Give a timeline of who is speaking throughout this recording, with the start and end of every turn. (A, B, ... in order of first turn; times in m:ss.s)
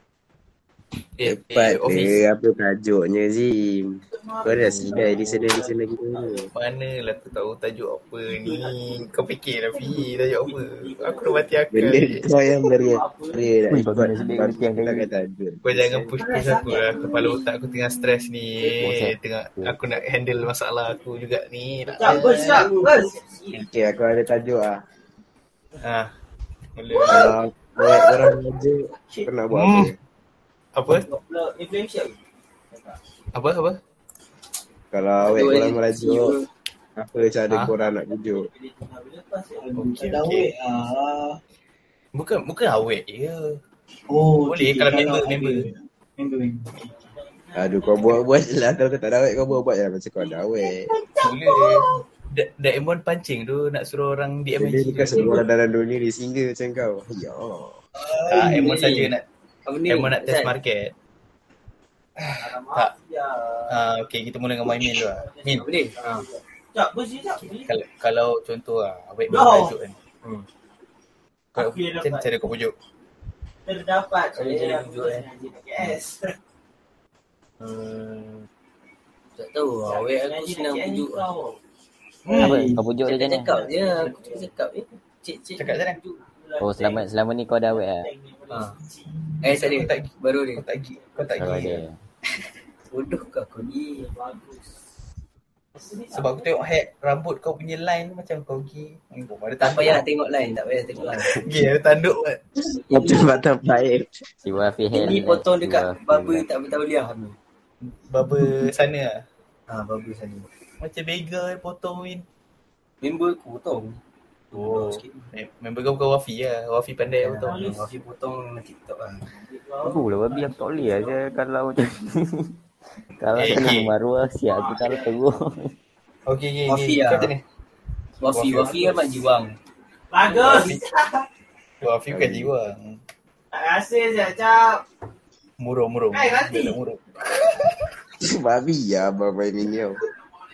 0:01.2-0:02.2 A
0:01.2-0:06.5 B
0:04.1-0:06.5 C
0:06.5-0:12.3 A
0:08.2-0:09.1 C
0:09.7-0:11.6 C
0:11.7-0:16.2 B
0:12.6-0:13.6 C
0:13.7-0:15.1 D
0:15.6-0:22.6 A
0:16.1-0:17.9 C
0:18.7-0:19.8 D
0:21.9-0:23.7 C
0:22.0-0:22.6 E
0:22.2-0:22.9 F
0:23.5-0:24.8 B
0:25.8-0:26.1 A
0:26.8-0:27.3 A
0:26.9-0:29.3 C
0:27.1-0:30.0 B
0:29.5-0:29.9 A
0:30.7-0:31.1 A
0:30.9-0:32.2 C
0:32.7-0:33.0 C
0:33.3-0:33.8 A
0:34.9-0:36.3 B
0:35.2-0:36.4 F
0:37.0-0:38.5 B
0:37.5-0:37.7 A
0:37.9-0:39.7 C
0:39.6-0:41.4 E
0:39.8-0:40.5 A
0:42.1-0:43.6 A
0:44.1-0:46.8 E
0:44.5-0:45.6 A
0:46.8-0:48.7 C
0:47.5-0:50.9 B
0:50.2-0:52.0 C
0:51.2-0:55.4 A
0:54.6-0:57.8 B
0:55.1-0:55.4 C
0:58.2-0:59.2 A
0:58.4-0:59.1 F
0:59.6-1:00.5 F
0:59.9-1:00.9 A
1:02.2-1:02.9 A
1:02.4-1:03.8 C
1:03.7-1:05.6 A
1:04.8-1:07.7 C
1:05.5-1:06.2 F
1:07.4-1:10.0 A
1:09.3-1:09.8 C
1:11.5-1:12.7 A
1:11.6-1:12.3 C
1:13.6-1:16.3 C
1:14.3-1:15.2 F
1:17.6-1:18.4 F
1:19.4-1:21.2 F
1:19.8-1:21.6 C
1:22.3-1:22.8 E
1:22.3-1:23.5 D
1:23.0-1:26.1 F
1:23.4-1:24.5 C
1:25.6-1:26.0 A
1:26.1-1:27.0 C
1:26.6-1:28.1 D
1:27.7-1:29.2 C
1:28.5-1:28.7 F
1:29.4-1:30.6 F
1:29.5-1:31.8 A
1:31.0-1:31.6 C
1:31.4-1:31.9 D
1:32.9-1:34.0 F
1:33.9-1:34.8 C
1:35.7-1:36.5 C
1:36.1-1:40.0 A
1:39.6-1:41.3 F
1:41.2-1:42.4 A
1:42.7-1:43.3 C
1:42.9-1:44.1 B
1:44.4-1:46.5 D
1:44.9-1:47.4 F
1:47.8-1:49.2 A
1:49.7-1:50.5 F
1:50.8-1:52.2 A
1:53.0-1:54.0 F
1:54.5-1:55.3 F
1:54.5-1:57.7 A
1:57.2-1:59.2 F
1:57.4-1:58.0 C
1:59.3-2:01.4 C
1:59.8-2:02.5 D
2:03.2-2:05.7 D
2:03.4-2:03.9 A
2:04.5-2:05.1 C
2:06.2-2:07.4 A
2:06.7-2:07.3 F
2:08.2-2:09.6 F
2:08.3-2:08.9 A
2:10.1-2:11.2 C
2:10.3-2:10.8 A
2:11.8-2:13.0 A
2:12.1-2:12.5 B
2:13.5-2:14.8 C
2:15.6-2:17.9 A
2:16.1-2:16.8 C
2:18.2-2:20.0 B